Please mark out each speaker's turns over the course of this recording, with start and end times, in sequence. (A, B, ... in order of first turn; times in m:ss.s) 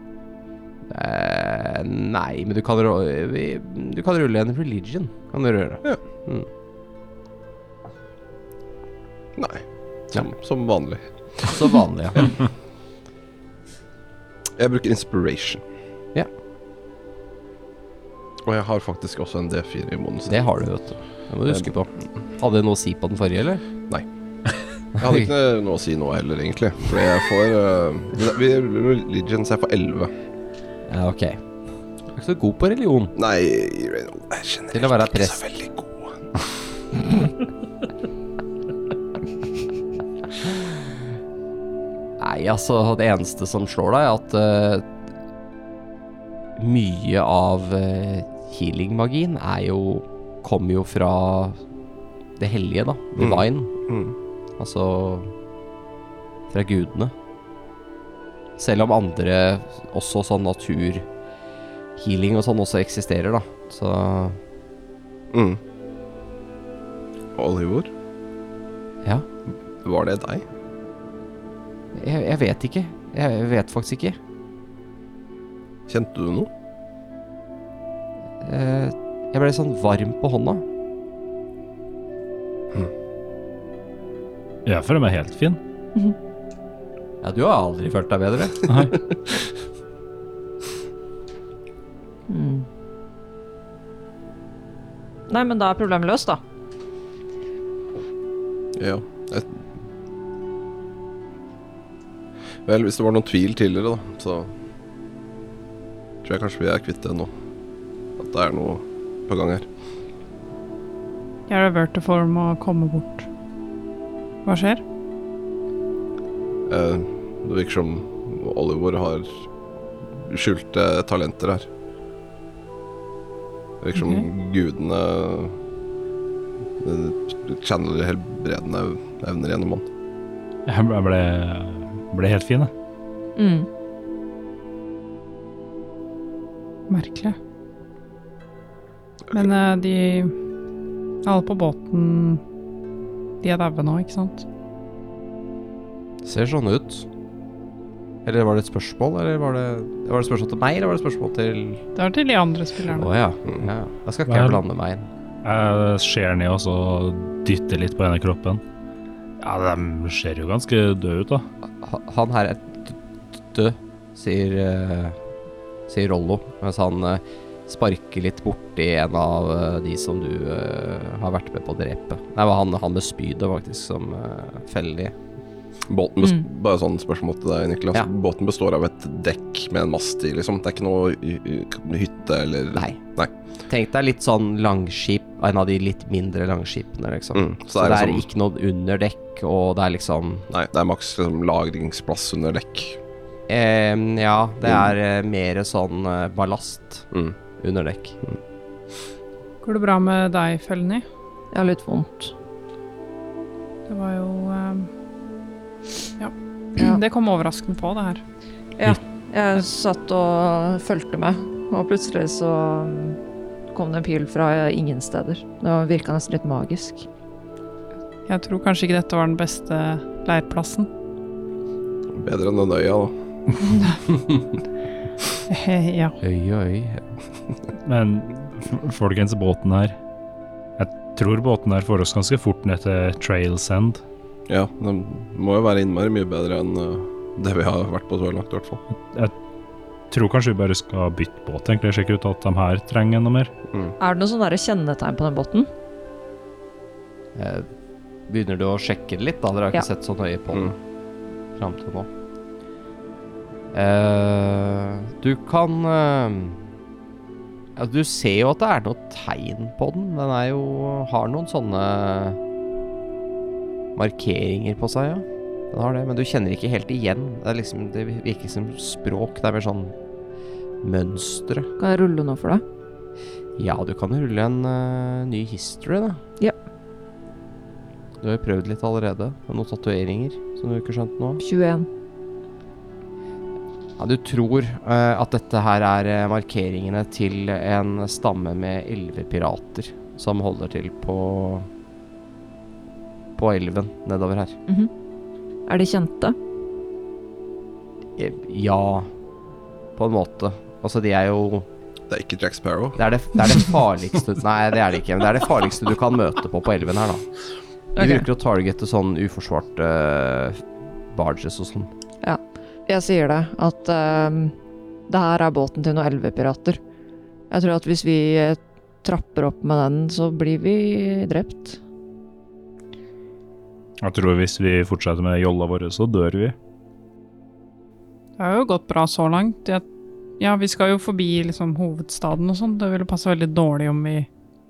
0:00.9-0:06.5 A
0:09.4-0:11.5 B
0:11.4-0:12.4 A
0:14.6-0:15.6 B
0:18.4-0:20.4 B
0:20.3-0:23.6 A
0:25.0-0:25.3 A
0:25.0-0:30.1 B
0:30.9-0:31.4 A
0:32.1-0:33.1 A
0:33.2-0:36.2 B
0:34.7-0:35.4 A
0:42.2-0:44.9 A
0:46.6-0:51.6 A
0:52.4-0:53.7 A
0:53.2-0:54.1 B
0:54.6-0:55.3 A
0:56.5-0:57.1 A
0:58.6-1:01.1 A
1:02.0-1:04.4 A
1:05.3-1:05.6 B
1:07.4-1:07.9 B
1:09.8-1:10.4 B
1:11.9-1:14.2 A
1:15.9-1:16.5 B
1:18.4-1:20.6 A
1:24.6-1:25.6 C
1:27.2-1:28.9 A
1:28.7-1:28.9 C
1:32.3-1:32.6 D
1:35.3-1:36.4 D
1:38.8-1:39.6 B
1:42.6-1:44.5 B
1:46.2-1:47.3 B
1:48.2-1:49.7 B
1:51.5-1:53.3 E
1:54.4-1:54.8 E
1:56.7-1:59.4 B
2:00.2-2:01.7 B
2:03.8-2:05.6 B
2:04.0-2:04.2 E
2:06.8-2:09.9 B
2:10.6-2:12.7 C
2:13.4-2:13.7 D
2:16.9-2:17.4 E
2:19.3-2:20.3 E
2:21.2-2:22.4 E
2:23.4-2:24.4 E
2:26.2-2:27.0 A
2:28.2-2:31.8 A
2:32.0-2:33.1 E
2:32.9-2:35.1 A
2:34.3-2:34.6 C
2:35.4-2:38.6 C
2:39.4-2:41.5 C
2:41.8-2:43.0 A
2:43.5-2:45.2 A
2:45.9-2:55.1 A
2:55.9-3:03.3 B
3:02.7-3:03.0 A
3:03.7-3:10.5 A
3:07.3-3:08.2 B
3:10.5-3:13.0 B
3:13.5-3:18.2 A
3:19.6-3:21.0 E
3:21.5-3:22.3 D
3:23.9-3:24.9 E
3:26.2-3:28.2 E
3:28.8-3:33.2 D
3:33.7-3:37.0 D
3:38.3-3:40.9 E
3:42.1-3:43.1 B
3:45.5-3:46.2 E
3:46.2-3:47.1 A
3:47.8-3:50.0 C
3:50.8-3:54.0 C
3:54.5-3:58.8 B
3:58.9-3:59.3 C
4:00.1-4:03.5 C
4:04.0-4:05.7 D
4:07.3-4:07.7 A
4:08.3-4:10.8 A
4:11.6-4:12.1 A
4:13.7-4:16.6 A
4:17.8-4:22.4 A
4:24.0-4:29.9 A
4:30.8-4:31.7 A
4:31.8-4:32.6 D
4:33.6-4:36.2 A
4:38.2-4:41.4 A
4:41.4-4:41.9 D
4:44.0-4:51.7 A
4:53.4-4:54.6 A
4:55.7-4:56.4 D
4:58.2-4:59.1 A
5:00.0-5:01.7 A
5:02.1-5:03.0 B
5:03.0-5:07.3 A
5:08.0-5:08.3 D
5:08.0-5:11.9 A
5:12.2-5:14.6 D
5:15.1-5:16.8 D
5:17.5-5:21.8 D
5:24.0-5:26.6 C
5:28.4-5:29.8 E
5:30.4-5:34.3 E